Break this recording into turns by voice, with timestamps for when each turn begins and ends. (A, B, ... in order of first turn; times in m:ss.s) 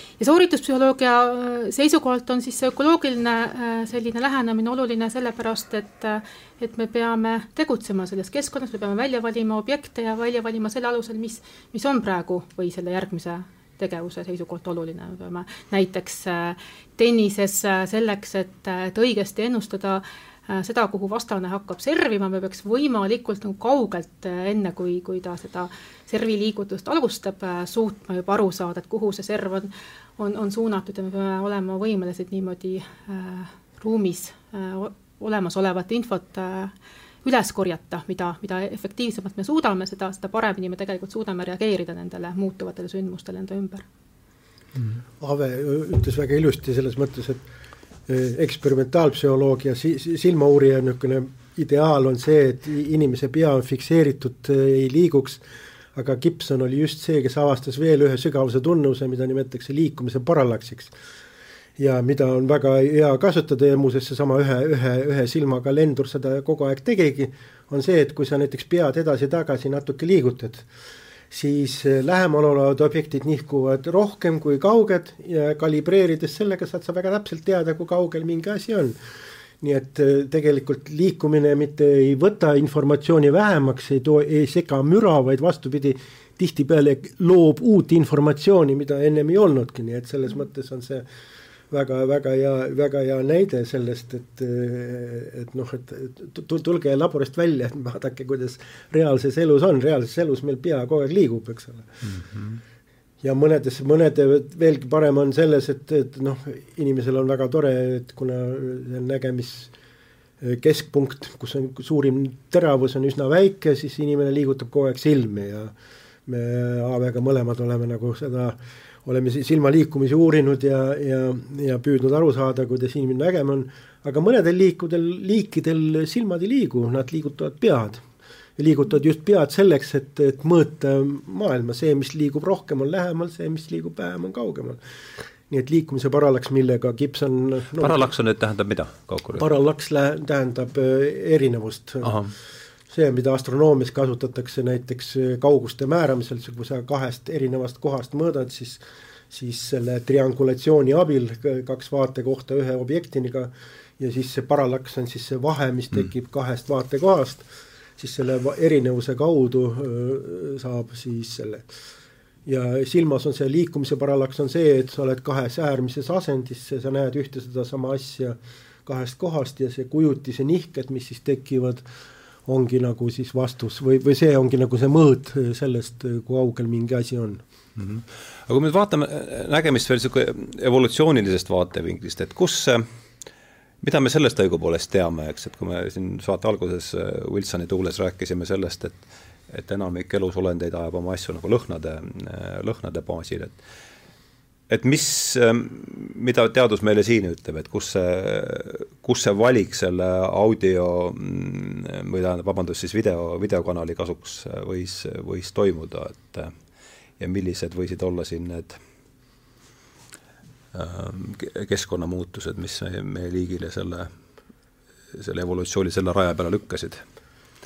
0:00.2-0:43.8 A
0:45.2-0:47.4 B
0:48.1-0:55.4 B
0:55.9-1:00.9 B
1:01.8-1:10.7 B
1:11.3-1:19.0 B
1:19.6-1:31.0 B
1:31.7-1:41.9 B
1:42.0-1:42.6 C
1:43.2-1:49.7 B
1:50.4-1:55.7 B
1:56.3-2:08.0 B
2:08.6-2:14.8 B
2:15.5-2:18.1 B
2:17.8-2:19.5 C
2:19.4-2:22.2 B
2:22.0-2:22.3 C
2:22.9-2:37.5 B
2:38.0-2:41.7 B
2:42.5-2:51.8 B
2:52.5-2:57.4 B
2:57.8-3:02.8 C
3:03.8-3:13.6 C
3:14.7-3:26.5 C
3:27.2-3:28.8 C
3:30.7-3:34.1 C
3:35.1-3:37.0 C